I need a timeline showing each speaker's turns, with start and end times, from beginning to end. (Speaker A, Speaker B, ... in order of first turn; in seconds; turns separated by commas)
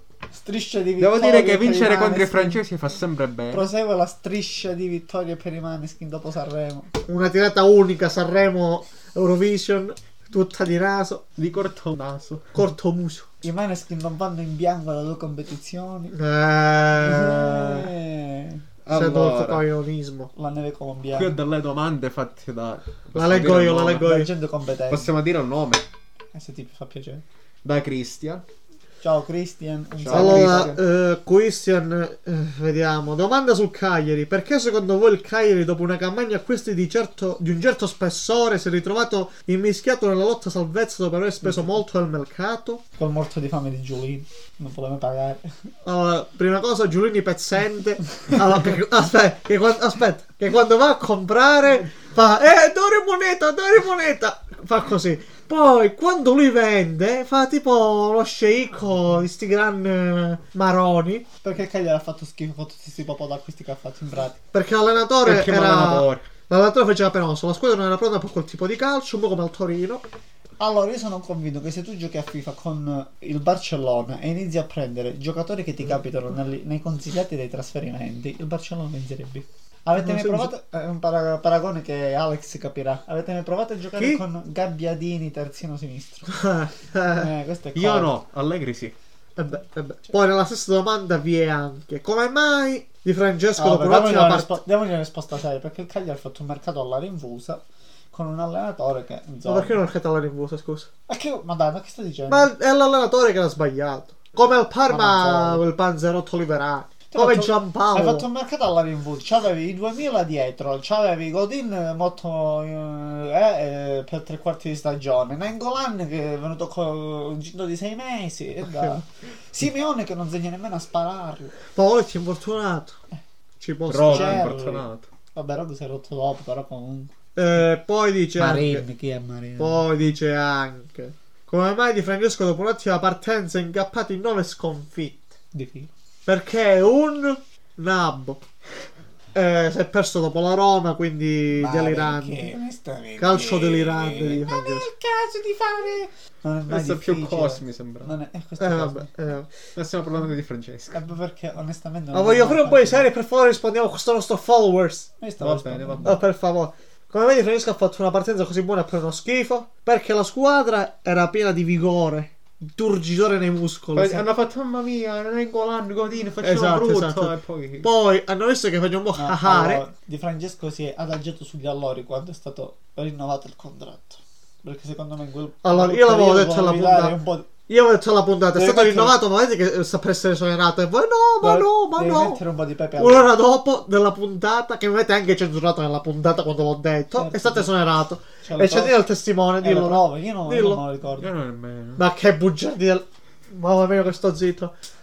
Speaker A: 0.3-2.6, Speaker B: 1.0-3.7, Speaker A: 3.5-6.9, Speaker C: 7.1-11.2, Speaker B: 11.4-12.6, Speaker C: 12.5-13.3, Speaker A: 13.4-16.1, Speaker C: 16.1-17.9, Speaker A: 17.0-18.6, Speaker B: 18.9-19.6, Speaker C: 18.9-20.3, Speaker A: 20.4-21.3, Speaker B: 21.1-24.1, Speaker C: 23.1-24.3, Speaker A: 24.0-25.1, Speaker B: 24.9-25.9, Speaker A: 26.3-27.2, Speaker B: 27.6-28.4, Speaker A: 29.0-30.8, Speaker B: 30.0-30.8, Speaker C: 30.1-42.8, Speaker A: 43.0-45.5, Speaker C: 45.9-61.3, Speaker A: 61.4-64.4, Speaker C: 64.5-70.0, Speaker B: 65.2-66.2, Speaker A: 70.6-86.4, Speaker C: 80.0-80.5, Speaker C: 84.0-84.2, Speaker C: 86.3-87.3, Speaker A: 87.1-88.1, Speaker B: 87.8-88.9, Speaker C: 89.4-94.6, Speaker A: 93.6-97.6, Speaker A: 98.1-99.8, Speaker C: 99.5-100.9, Speaker A: 101.1-102.5, Speaker C: 102.3-108.3, Speaker A: 104.9-105.6, Speaker A: 107.1-121.6, Speaker C: 118.7-119.0, Speaker C: 121.7-123.0, Speaker C: 123.6-124.5, Speaker B: 123.9-125.1, Speaker A: 124.1-127.1, Speaker C: 127.4-128.8, Speaker A: 128.4-129.9, Speaker C: 129.6-135.3, Speaker A: 135.5-135.9, Speaker C: 136.3-138.4, Speaker C: 139.3-142.6, Speaker A: 141.5-149.1, Speaker C: 143.2-144.9, Speaker B: 146.7-148.2, Speaker C: 148.6-149.5, Speaker B: 149.8-151.0, Speaker A: 150.9-153.1, Speaker C: 152.1-155.1, Speaker A: 155.2-156.2, Speaker B: 155.4-156.2, Speaker C: 156.1-164.2, Speaker B: 163.9-167.9, Speaker C: 166.4-169.8, Speaker A: 169.2-177.5, Speaker C: 175.6-177.2, Speaker C: 177.7-182.4, Speaker A: 178.5-179.2, Speaker A: 181.4-183.3, Speaker C: 183.0-190.8, Speaker A: 187.1-187.7, Speaker A: 188.4-189.1, Speaker A: 189.6-191.3, Speaker B: 191.2-192.0, Speaker C: 192.0-194.7